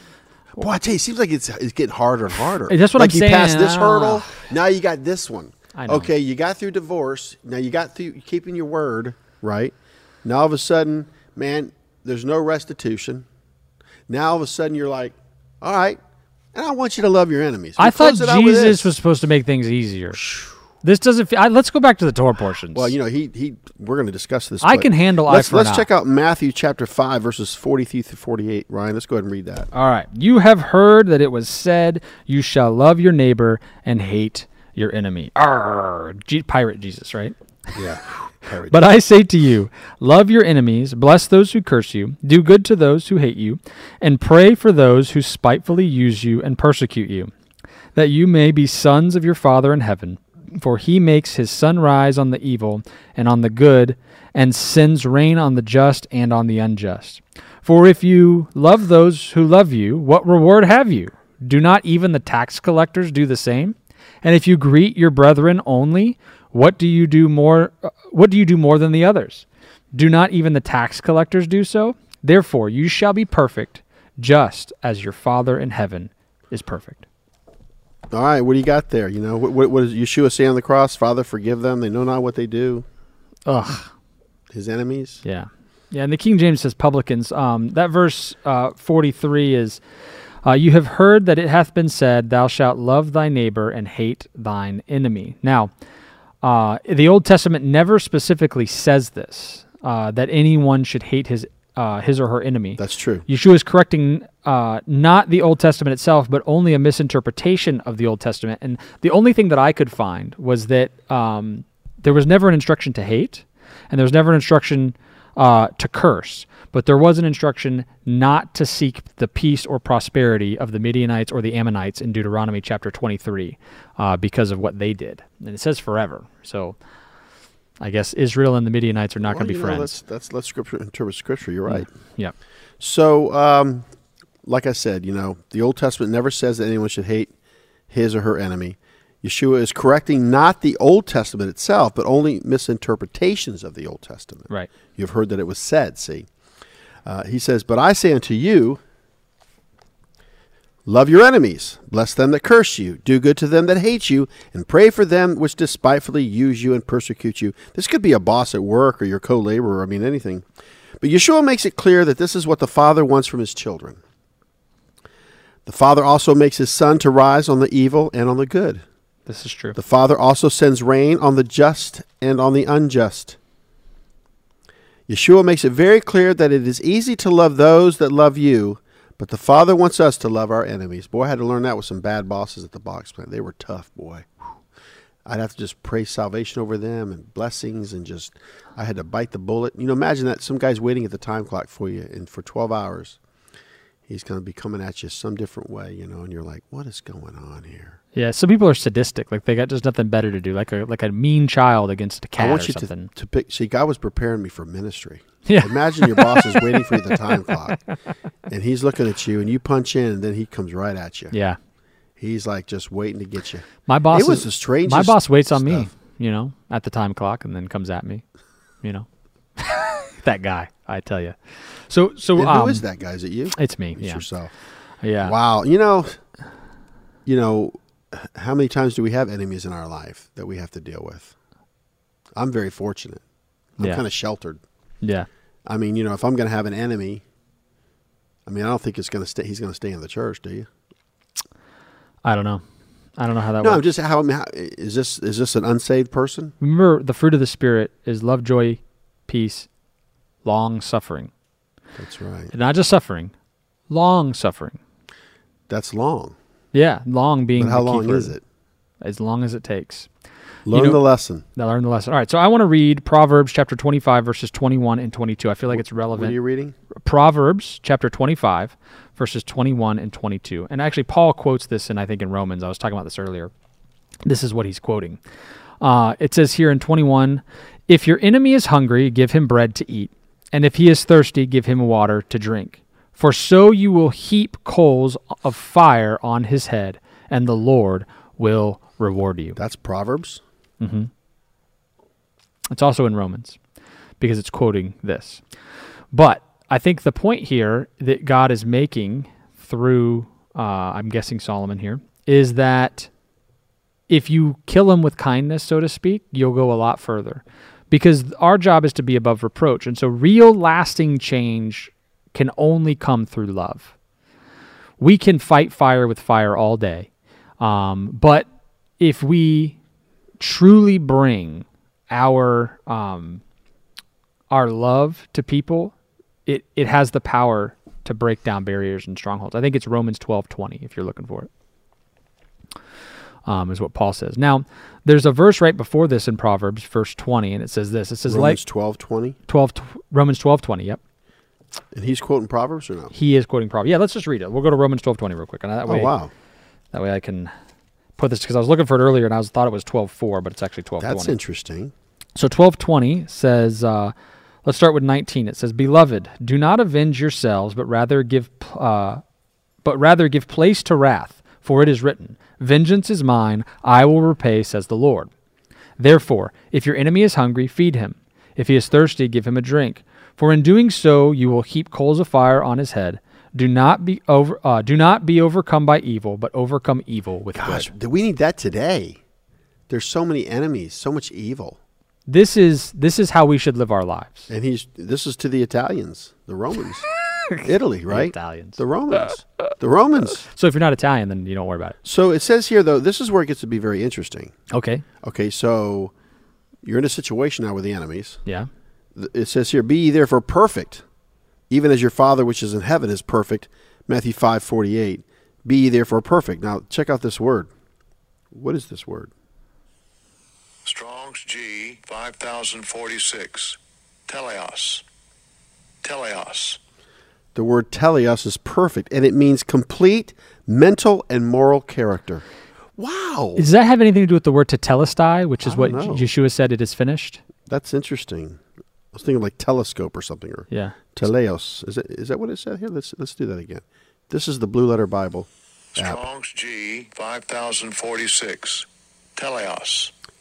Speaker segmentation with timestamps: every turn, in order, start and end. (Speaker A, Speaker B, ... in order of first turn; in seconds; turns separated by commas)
Speaker A: 0.6-13.3, Speaker B: 2.7-4.5, Speaker B: 5.7-6.1, Speaker A: 14.1-16.0, Speaker A: 16.5-18.9, Speaker B: 17.8-20.3, Speaker B: 20.8-22.9, Speaker A: 22.7-29.7, Speaker B: 24.6-25.9, Speaker B: 29.7-37.4, Speaker A: 37.8-38.9, Speaker B: 38.7-47.3, Speaker B: 48.0-77.1, Speaker A: 78.1-82.9, Speaker B: 83.5-83.9, Speaker A: 84.5-85.2, Speaker B: 85.2-89.8, Speaker B: 90.4-95.7, Speaker B: 96.4-126.8, Speaker A: 102.8-103.3, Speaker B: 127.8-130.0, Speaker A: 129.2-131.9, Speaker B: 131.7-132.3, Speaker A: 132.8-133.9, Speaker A: 134.4-137.3, Speaker A: 137.9-146.3, Speaker A: 147.1-148.8, Speaker A: 150.9-160.4, Speaker A: 161.0-164.0, Speaker A: 165.7-168.8, Speaker B: 169.3-169.8, Speaker A: 169.8-173.4, Speaker A: 175.1-184.3, Speaker A: 185.3-193.2, Speaker A: 194.1-198.0, Speaker B: 198.1-203.1, Speaker A: 202.4-207.8, Speaker B: 205.4-207.5, Speaker A: 208.5-211.3, Speaker B: 211.3-211.6, Speaker A: 212.2-215.9, Speaker B: 213.9-218.2, Speaker B: 219.6-222.8, Speaker A: 222.3-224.5, Speaker B: 223.6-224.2, Speaker B: 225.0-225.4, Speaker A: 225.2-226.2, Speaker A: 227.3-231.3, Speaker A: 232.3-233.2, Speaker A: 233.8-234.6, Speaker B: 235.0-235.3, Speaker A: 235.7-237.2, Speaker A: 238.4-240.7, Speaker B: 242.2-242.6, Speaker B: 243.2-243.8, Speaker A: 243.6-246.6, Speaker B: 246.6-249.7, Speaker B: 250.4-251.3, Speaker A: 252.0-252.5, Speaker B: 252.5-253.3, Speaker B: 253.9-254.8, Speaker A: 255.7-256.4, Speaker B: 256.7-258.4, Speaker A: 257.6-258.4, Speaker B: 259.0-260.1, Speaker A: 260.7-261.4, Speaker B: 260.7-261.0, Speaker B: 261.6-266.4, Speaker A: 265.7-266.8, Speaker B: 266.9-273.5, Speaker B: 274.2-275.2, Speaker B: 275.8-289.6, Speaker A: 289.6-290.4, Speaker B: 290.8-291.1, Speaker B: 292.7-293.6, Speaker B: 294.2-295.4, Speaker B: 296.1-303.1, Speaker B: 304.1-313.9, Speaker B: 315.0-317.1, Speaker B: 317.6-318.4, Speaker B: 319.0-319.8, Speaker B: 320.4-323.4, Speaker B: 324.5-325.9, Speaker B: 326.4-331.5, Speaker B: 333.4-338.6, Speaker A: 338.3-339.4, Speaker B: 339.5-341.0, Speaker A: 341.9-343.1, Speaker B: 343.1-346.1, Speaker A: 345.9-346.3, Speaker B: 346.9-347.5, Speaker B: 348.2-351.4, Speaker A: 351.0-351.9, Speaker B: 352.4-354.1, Speaker B: 354.6-359.2, Speaker B: 359.9-365.3, Speaker B: 366.0-377.9, Speaker A: 377.6-379.2, Speaker A: 379.9-381.8, Speaker B: 382.3-384.5, Speaker A: 384.5-387.1, Speaker A: 387.6-390.4, Speaker B: 388.1-388.8, Speaker B: 390.3-392.0, Speaker A: 392.0-394.6, Speaker B: 394.7-395.1, Speaker A: 395.2-396.1, Speaker A: 396.8-398.4, Speaker A: 399.1-401.0, Speaker A: 401.7-407.7, Speaker A: 408.5-409.3, Speaker C: 410.9-415.0, Speaker C: 416.0-416.8, Speaker A: 417.6-422.4, Speaker A: 423.0-423.7, Speaker B: 423.6-427.4, Speaker A: 425.6-426.3, Speaker A: 427.7-428.6, Speaker A: 429.1-436.2, Speaker B: 430.7-431.0, Speaker C: 435.9-440.1